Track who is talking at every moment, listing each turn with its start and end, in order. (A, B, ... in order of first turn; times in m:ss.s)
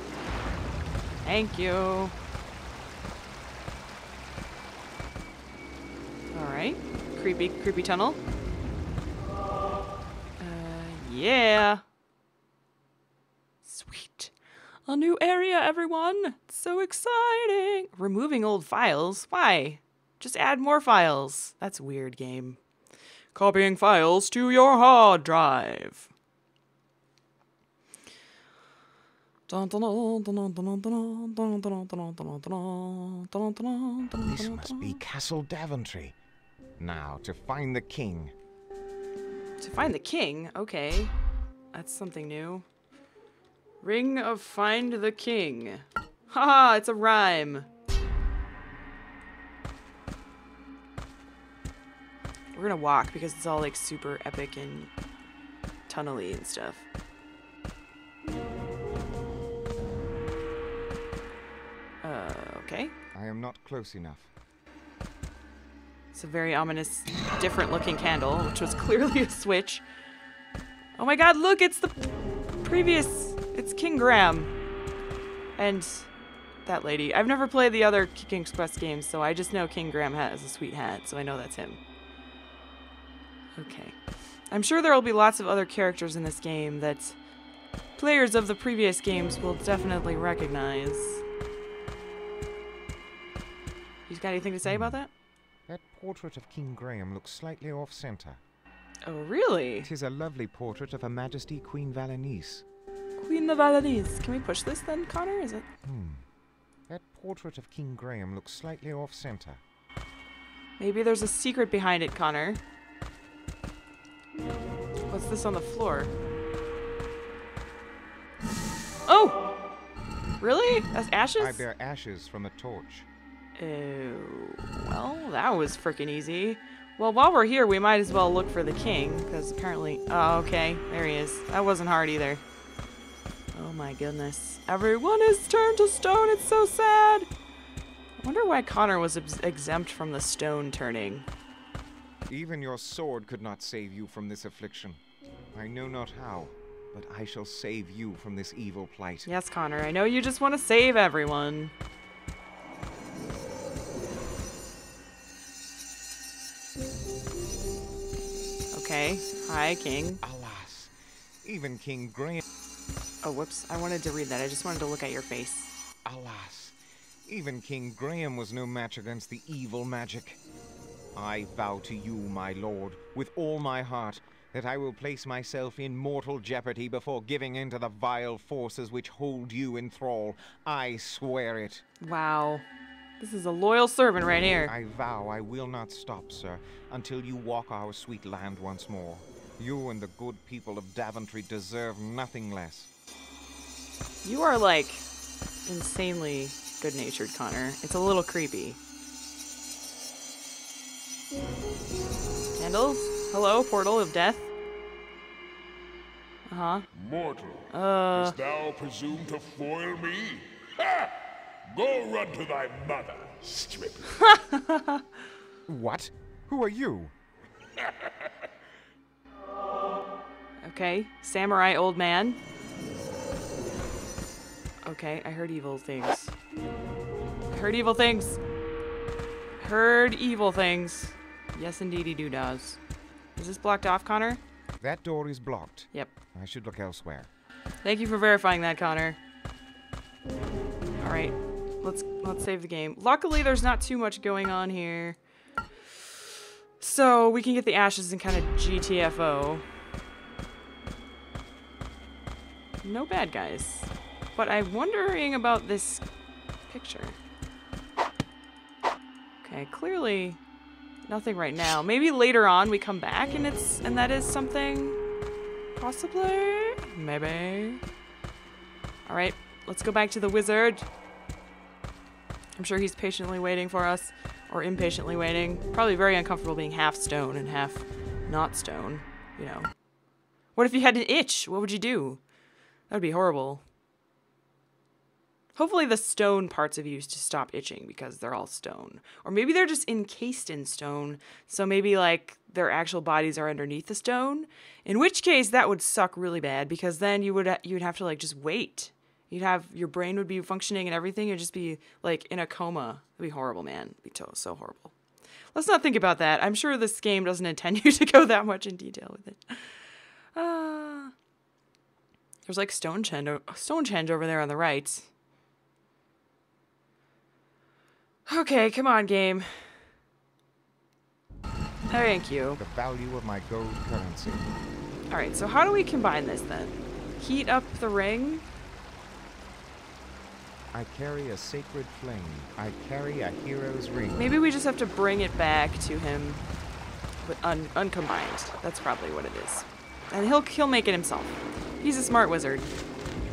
0:01.2-0:02.1 A
0:06.3-0:08.2 A
0:10.4-0:11.8 A
0:13.6-0:14.3 A
0:14.8-0:22.6 A
0:23.3-0:26.1 A
0:29.5-0:35.0 A
0:34.2-0:36.2 B
0:36.8-0:38.3 B
0:39.6-0:41.1 A
0:41.7-0:42.6 A
0:43.8-0:47.7 A
0:52.5-0:54.9 A
0:55.9-0:56.8 A
1:02.0-1:02.9 A
1:03.1-1:04.3 B
1:06.1-1:09.8 A
1:11.0-1:12.0 A
1:12.6-1:14.5 A
1:15.6-1:16.1 A
1:16.6-1:21.8 A
1:23.6-1:24.0 A
1:24.5-1:27.2 A
1:28.0-1:31.2 A
1:34.1-1:35.1 A
1:34.6-1:35.0 B
1:35.7-1:38.4 B
1:39.0-1:39.9 A
1:39.8-1:42.6 B
1:43.2-1:45.6 A
1:45.8-1:46.2 B
1:46.9-1:49.6 B
1:50.8-1:52.6 A
1:55.1-1:56.1 A
1:59.1-1:59.4 A
2:00.4-2:01.6 A
2:01.4-2:03.1 B
2:03.6-2:12.4 A
2:13.5-2:17.3 A
2:18.2-2:21.3 A
2:22.3-2:25.0 B
2:25.5-2:29.3 B
2:29.2-2:31.7 A
2:38.7-2:40.2 A
2:40.2-2:42.4 B
2:43.2-2:45.7 A
2:46.0-2:50.4 B
2:51.1-3:01.8 B
3:02.0-3:02.7 A
3:03.2-3:04.7 A
3:04.7-3:12.9 B
3:14.2-3:15.0 A
3:15.6-3:18.8 A
3:22.6-3:24.5 A
3:26.5-3:26.9 A
3:26.9-3:31.1 C
3:27.7-3:28.4 A
3:31.7-3:34.2 C
3:34.2-3:35.0 A
3:35.7-3:37.1 B
3:40.6-3:42.4 A
3:44.8-3:46.3 A
3:47.5-3:48.4 A
3:49.6-3:52.8 A
3:53.4-3:54.4 A
3:54.8-3:57.3 B
3:57.8-3:59.2 A
4:01.0-4:05.2 A
4:06.8-4:09.6 A
4:12.8-4:16.0 A
4:16.7-4:17.2 A
4:19.4-4:20.4 A
4:21.1-4:25.0 A
4:25.7-4:27.8 A
4:29.0-4:30.9 A
4:32.6-4:39.7 A
4:40.6-4:42.2 A
4:42.9-4:43.6 A
4:45.6-5:04.9 A
5:05.5-5:09.8 A
5:10.3-5:11.1 A
5:12.4-5:15.1 A
5:18.3-5:19.7 A
5:21.9-5:22.6 A
5:22.6-5:24.5 B
5:25.1-5:28.4 A
5:30.7-5:34.3 B
5:34.1-5:36.4 A
5:37.2-5:42.7 A